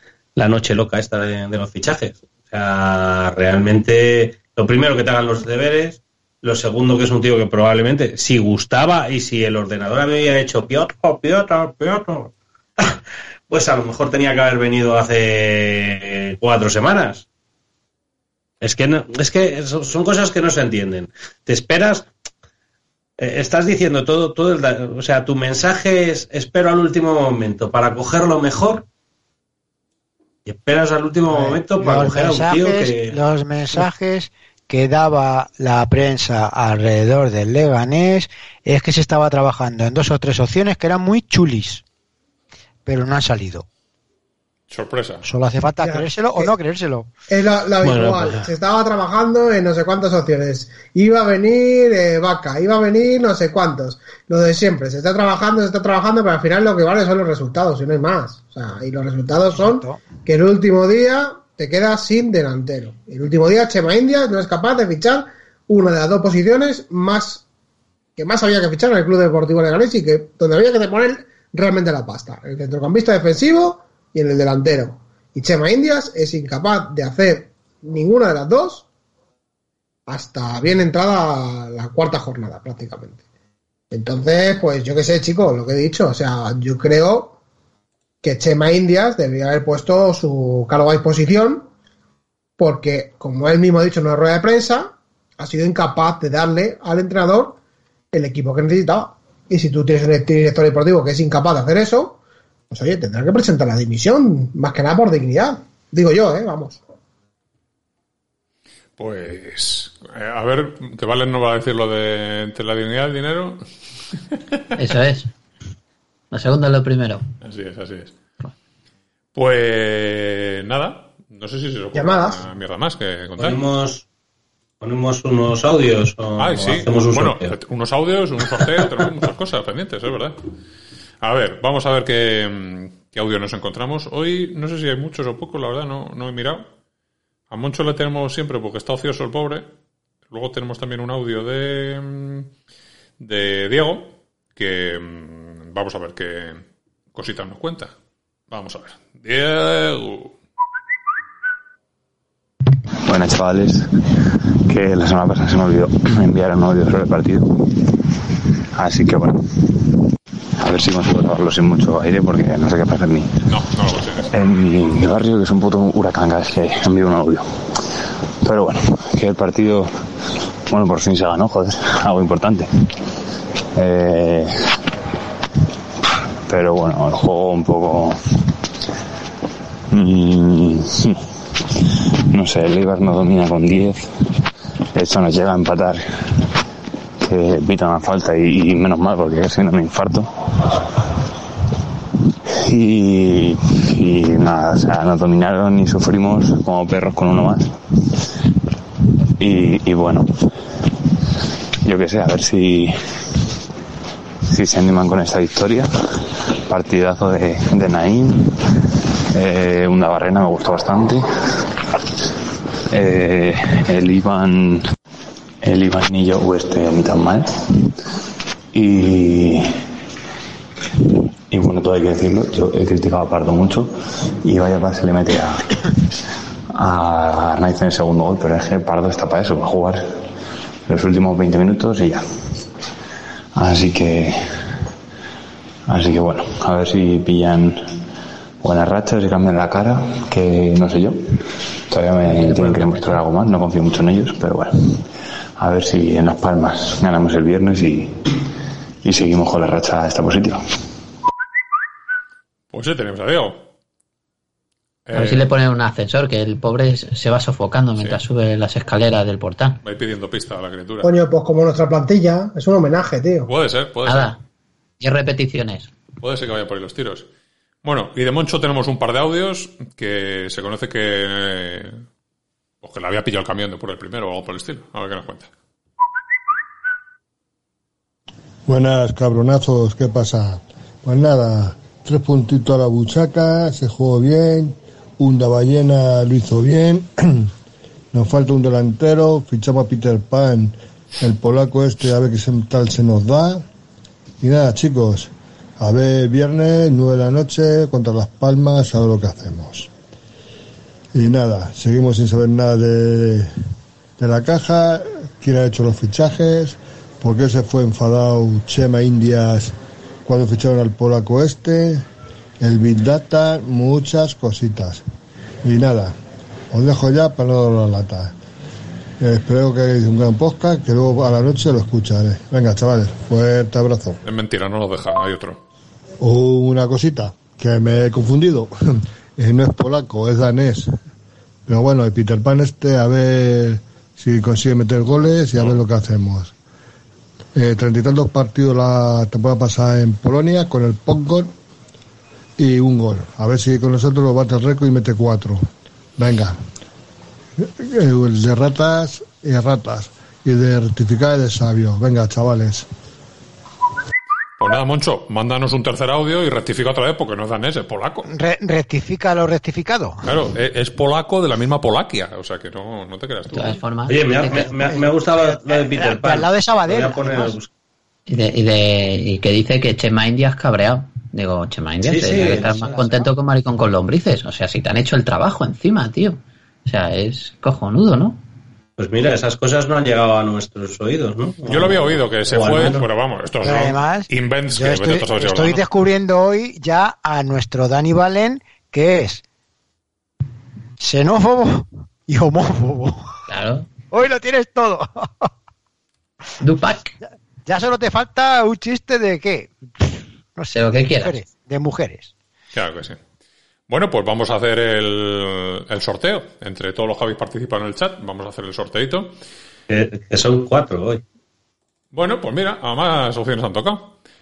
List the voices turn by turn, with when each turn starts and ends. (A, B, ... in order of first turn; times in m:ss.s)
0:00.4-0:13.0 A
0:13.5-0:17.2 A
0:18.6-0:22.1 A
0:23.2-0:28.9 A
0:30.5-0:33.2 A
0:31.3-0:41.8 B
0:42.9-0:43.7 B
0:44.7-0:45.3 C
0:45.2-0:47.1 B
0:45.8-0:46.5 D
0:47.3-1:07.4 D
0:47.8-0:48.5 A
0:59.5-1:00.1 B
1:08.2-1:18.9 D
1:20.1-1:23.2 D
1:23.9-1:27.4 D
1:28.2-1:31.7 D
1:32.6-1:37.6 D
1:38.1-1:42.2 D
1:42.7-1:46.8 D
1:49.0-1:53.6 C
1:54.8-1:55.3 E
1:56.3-1:57.2 E
1:57.4-1:58.2 C
1:59.4-2:03.6 C
2:01.9-2:02.4 D
2:03.4-2:04.0 A
2:04.8-2:07.5 A
2:06.4-2:10.4 C
2:08.6-2:09.0 A
2:11.2-2:16.6 C
2:17.5-2:19.7 C
2:20.3-2:22.5 C
2:23.2-2:26.6 C
2:27.1-2:27.9 C
2:28.5-2:30.4 C
2:33.0-2:34.1 F
2:34.6-2:38.0 F
2:38.8-2:40.0 F
2:40.6-2:43.5 F
2:43.5-2:44.3 C
2:44.3-2:47.5 F
2:48.4-2:49.9 F
2:50.7-2:52.7 F
2:53.8-2:54.5 F
2:56.5-2:58.2 F
2:59.9-3:01.2 F
3:02.3-3:04.0 F
3:05.0-3:06.0 F
3:07.3-3:10.8 F
3:12.5-3:17.7 F
3:19.4-3:20.3 F
3:21.8-3:22.9 F
3:24.5-3:25.9 F
3:26.7-3:28.5 F
3:29.4-3:31.2 F
3:32.9-3:34.8 F
3:35.6-3:37.5 F
3:38.7-3:39.6 F
3:41.5-3:43.9 F
3:44.4-3:45.8 F
3:46.7-3:50.0 F
3:50.9-3:52.2 F
3:53.6-3:54.4 F
3:55.9-3:57.8 F
3:58.6-4:05.1 F
4:02.2-4:03.2 E
4:05.6-4:08.2 F
4:09.0-4:10.6 F
4:12.7-4:13.6 C
4:15.1-4:15.5 C
4:15.1-4:19.8 E
4:19.8-4:21.1 C
4:21.0-4:23.5 D
4:23.5-4:24.3 C
4:24.1-4:24.4 E
4:25.0-4:25.9 E
4:26.2-4:27.3 C
4:27.8-4:32.0 C
4:32.8-4:35.5 C
4:38.7-4:47.5 G
4:48.1-4:53.7 G
4:54.4-4:59.9 G
5:01.1-5:03.5 G
5:04.2-5:12.0 G
5:12.6-5:15.0 G
5:15.6-5:16.2 G
5:16.7-5:18.4 G
5:19.2-5:24.2 G
5:24.2-5:25.6 C
5:26.2-5:28.7 G
5:29.4-5:30.9 G
5:31.7-5:36.5 G
5:35.6-5:35.8 C
5:37.6-5:41.5 G
5:42.6-5:45.6 G
5:46.2-5:46.6 G
5:47.6-5:52.9 G
5:54.6-5:58.3 C
5:58.3-6:00.2 B
6:00.2-6:03.8 C
6:03.5-6:04.7 E
6:04.1-6:07.7 A
6:04.5-6:07.6 B
6:08.3-6:18.4 E
6:12.0-6:12.8 A
6:12.3-6:13.3 B
6:19.0-6:23.1 A
6:21.7-6:25.8 C
6:23.6-6:29.4 B
6:31.0-6:33.3 B
6:33.5-6:33.9 E
6:34.1-6:35.5 B
6:36.6-6:37.2 E
6:37.7-6:42.3 B
6:40.7-6:41.4 E
6:42.7-6:43.2 C
6:43.9-6:49.4 C
6:49.9-6:51.2 A
6:52.1-6:54.1 C